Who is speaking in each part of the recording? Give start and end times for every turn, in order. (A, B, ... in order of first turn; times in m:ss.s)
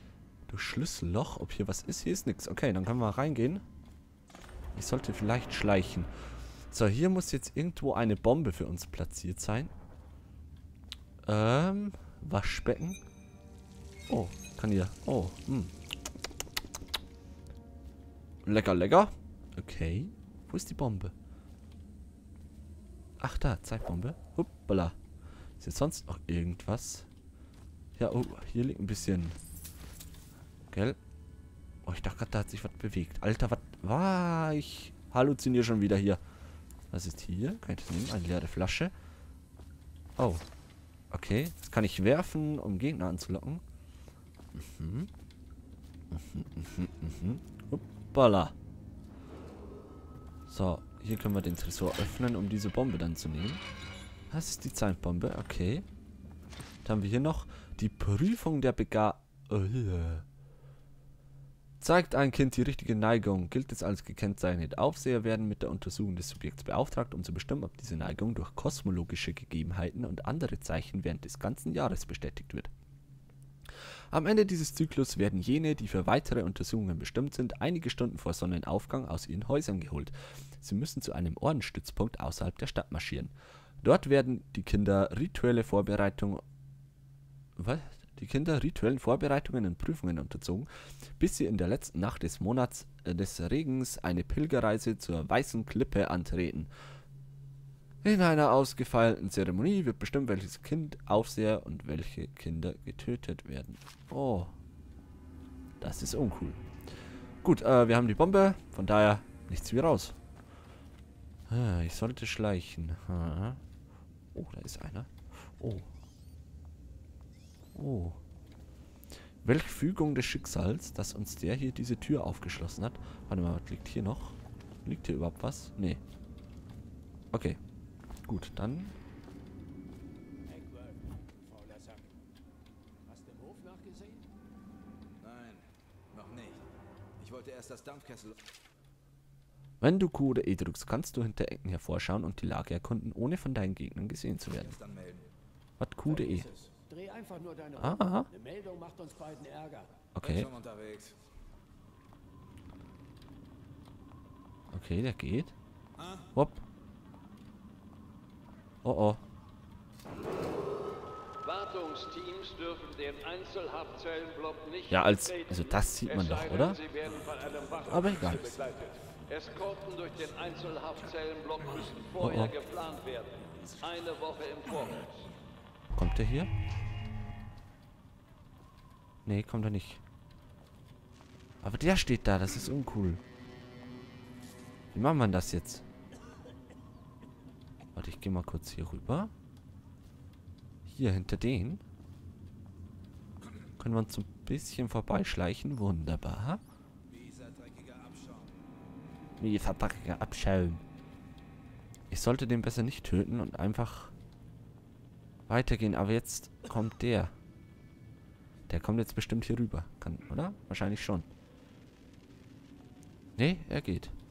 0:00.5-0:03.6 A
0:04.7-0:06.1 A
0:06.7-0:09.7 A
0:11.2-0:13.0 A
0:14.1-0:15.7 A
0:18.4-0:21.1 A
0:23.2-0:25.0 A
0:25.6-0:27.1 A
0:28.0-0:29.4 A
0:30.7-0:31.0 A
0:31.8-0:36.2 A
0:36.9-0:38.9 A
0:40.2-0:40.4 A
0:41.1-0:43.6 A
0:44.5-0:45.1 A
0:46.1-0:48.5 A
0:50.5-0:53.6 A
0:54.3-0:55.8 A
0:56.8-1:00.2 A
1:01.8-1:12.7 A
1:14.1-1:26.4 A
1:27.6-1:36.7 A
1:38.0-1:44.5 A
1:45.8-1:46.6 A
1:47.4-1:50.1 A
1:51.5-1:53.6 A
1:54.3-1:55.9 A
1:57.7-1:58.2 A
1:59.4-2:06.0 A
2:07.3-2:07.6 A
2:08.2-2:08.9 A
2:10.4-2:12.2 B
2:13.1-2:14.3 B
2:15.2-2:18.4 C
2:19.8-2:24.8 A
2:24.7-2:25.3 C
2:25.8-2:26.5 A
2:26.1-2:30.0 B
2:27.8-2:28.3 A
2:30.1-2:30.5 A
2:30.2-2:31.2 C
2:34.7-2:35.5 A
2:36.0-2:36.3 C
2:36.3-2:36.6 A
2:38.8-2:39.2 A
2:41.4-2:44.9 D
2:44.9-2:46.9 A
2:46.2-2:55.1 D
2:47.8-2:48.6 A
2:52.1-2:52.6 A
2:53.3-2:54.2 B
2:55.9-2:56.5 A
2:59.2-3:00.0 A
3:01.6-3:03.2 A
3:04.9-3:05.8 A
3:07.9-3:09.3 A
3:10.9-3:11.8 A
3:13.8-3:16.6 A
3:17.1-3:18.6 C
3:19.4-3:20.8 A
3:22.1-3:24.1 A
3:25.5-3:27.3 A
3:28.7-3:31.3 A
3:33.4-3:34.1 A